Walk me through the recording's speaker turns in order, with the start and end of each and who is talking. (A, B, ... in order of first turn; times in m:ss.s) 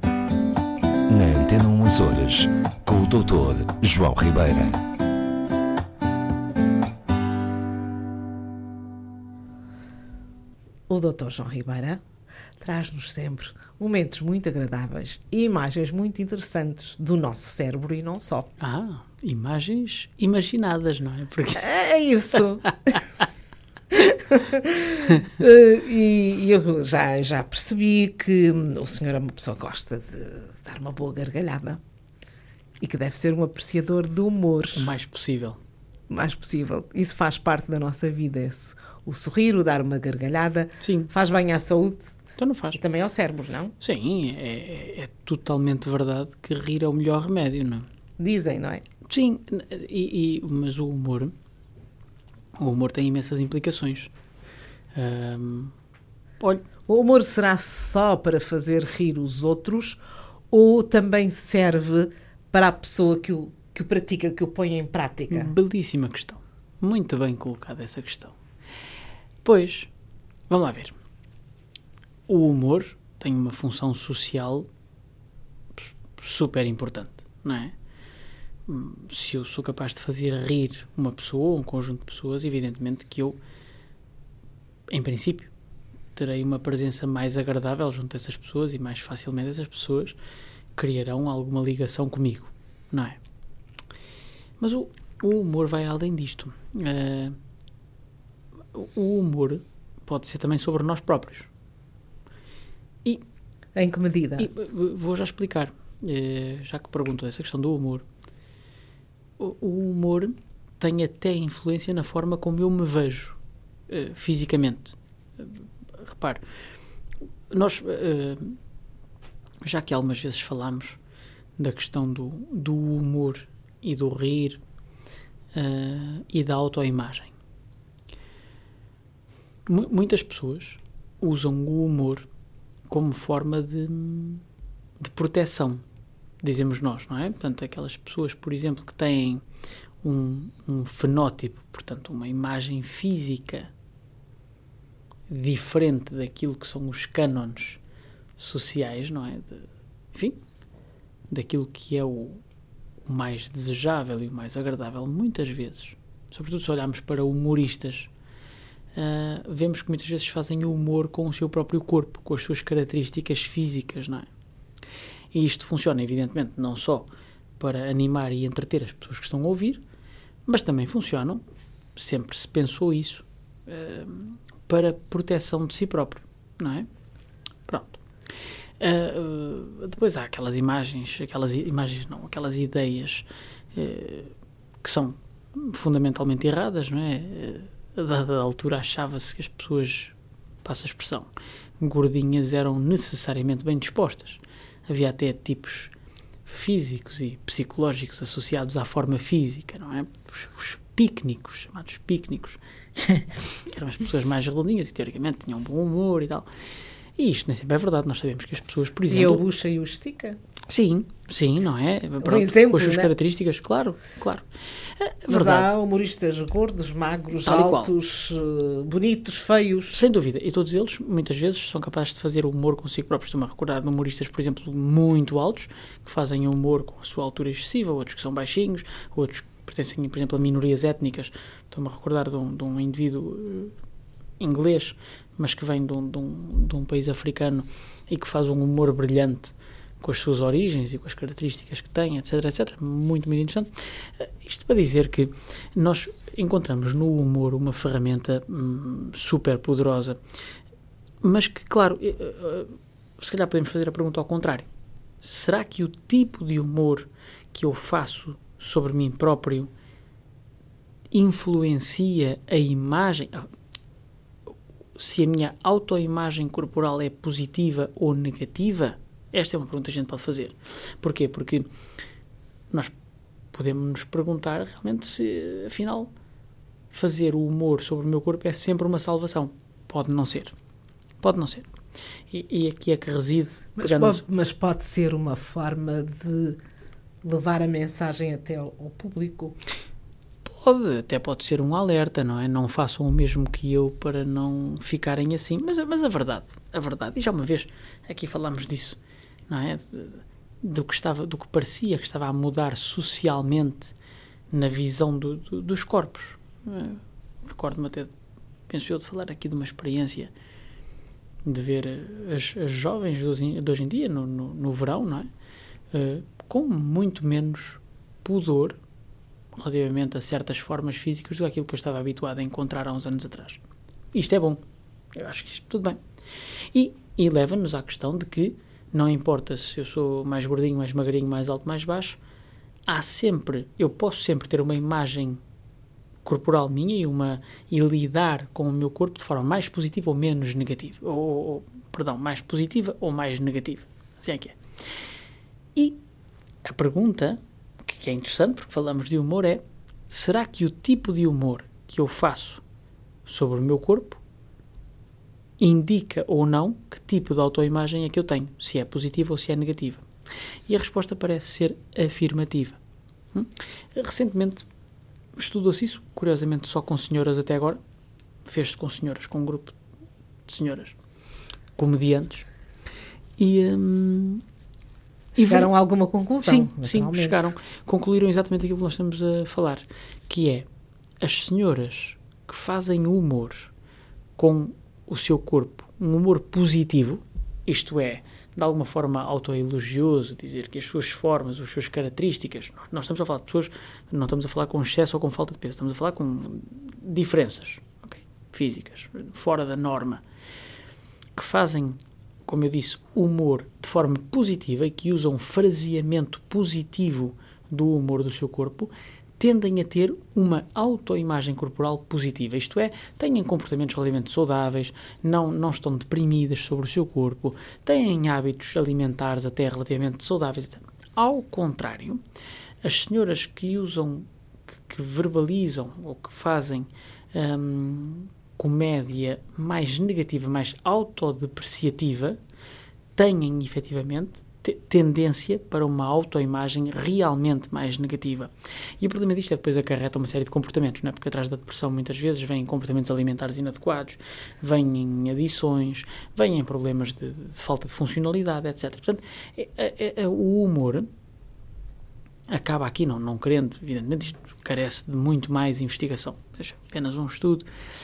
0:01.1-0:04.8 A
0:10.9-0:12.0 B
0:12.6-0:18.5 B
0:18.6-0:21.7 C
0:21.6-0:23.0 B
0:23.9-0:31.8 B
0:32.8-0:34.9 B
0:34.7-0:35.6 C
0:36.1-0:42.2 B
0:40.8-0:41.1 C
0:42.4-0:42.8 C
0:42.7-0:43.7 B
0:43.8-0:47.8 C
0:48.2-0:48.8 B
0:49.1-0:51.3 C
0:52.6-0:54.1 C
0:54.9-0:55.7 C
0:56.4-0:56.6 C
0:56.9-1:00.0 B
1:00.5-1:05.5 B
1:05.3-1:08.3 C
1:09.4-1:09.9 C
1:10.5-1:10.9 C
1:12.3-1:14.7 C
1:15.8-1:17.7 C
1:18.7-1:23.4 C
1:24.9-1:25.5 C
1:26.1-1:30.2 C
1:30.7-1:33.2 C
1:34.6-1:37.4 C
1:38.7-1:41.5 C
1:43.7-1:44.6 B
1:44.4-1:48.0 C
1:49.4-1:53.4 C
1:53.9-1:56.4 C
1:57.5-1:58.6 C
1:59.6-2:01.0 C
2:01.6-2:04.6 C
2:05.5-2:07.3 C
2:09.7-2:12.3 C
2:12.9-2:14.4 C
2:15.0-2:15.8 C
2:16.4-2:19.4 C
2:20.0-2:23.7 C
2:25.3-2:27.8 C
2:28.4-2:30.4 C
2:31.3-2:32.4 C
2:33.0-2:38.1 C
2:38.9-2:44.3 C
2:45.3-2:49.8 C
2:50.4-2:51.4 C
2:52.0-2:56.9 C
2:57.6-2:58.0 C
2:58.8-3:15.9 C
3:16.4-3:26.5 C
3:27.2-3:29.4 C
3:29.1-3:30.4 B
3:30.7-3:35.7 C
3:32.2-3:33.1 B
3:35.3-3:40.0 B
3:37.4-3:37.9 C
3:39.9-3:53.7 C
3:54.4-4:10.2 C
4:11.2-4:14.7 C
4:15.2-4:19.7 C
4:21.1-4:23.5 C
4:25.0-4:31.7 C
4:33.5-4:36.1 C
4:36.9-4:40.5 C
4:41.2-4:41.7 C
4:42.3-4:44.2 C
4:43.8-4:46.6 B
4:47.2-4:49.6 B
4:50.4-5:03.9 C
5:04.5-5:08.1 C
5:08.7-5:10.3 C
5:11.4-5:15.3 C
5:15.9-5:18.8 C
5:19.5-5:23.6 C
5:24.1-5:24.6 C
5:25.1-5:26.0 C
5:26.7-5:32.2 C
5:32.8-5:35.4 C
5:36.2-5:44.6 C
5:45.7-5:46.0 C
5:46.6-5:52.6 C
5:53.2-5:54.2 C
5:55.6-6:00.0 C
6:00.7-6:02.8 C
6:03.3-6:04.6 C
6:05.4-6:07.8 C
6:08.4-6:09.8 C
6:10.4-6:11.0 C
6:11.8-6:12.4 C
6:13.4-6:14.4 C
6:15.3-6:17.5 B
6:15.4-6:15.7 C
6:16.4-6:20.7 C
6:21.2-6:23.7 C
6:24.4-6:40.2 C
6:41.3-7:02.2 C
7:02.8-7:12.4 C
7:13.1-7:31.1 C
7:32.5-7:37.7 C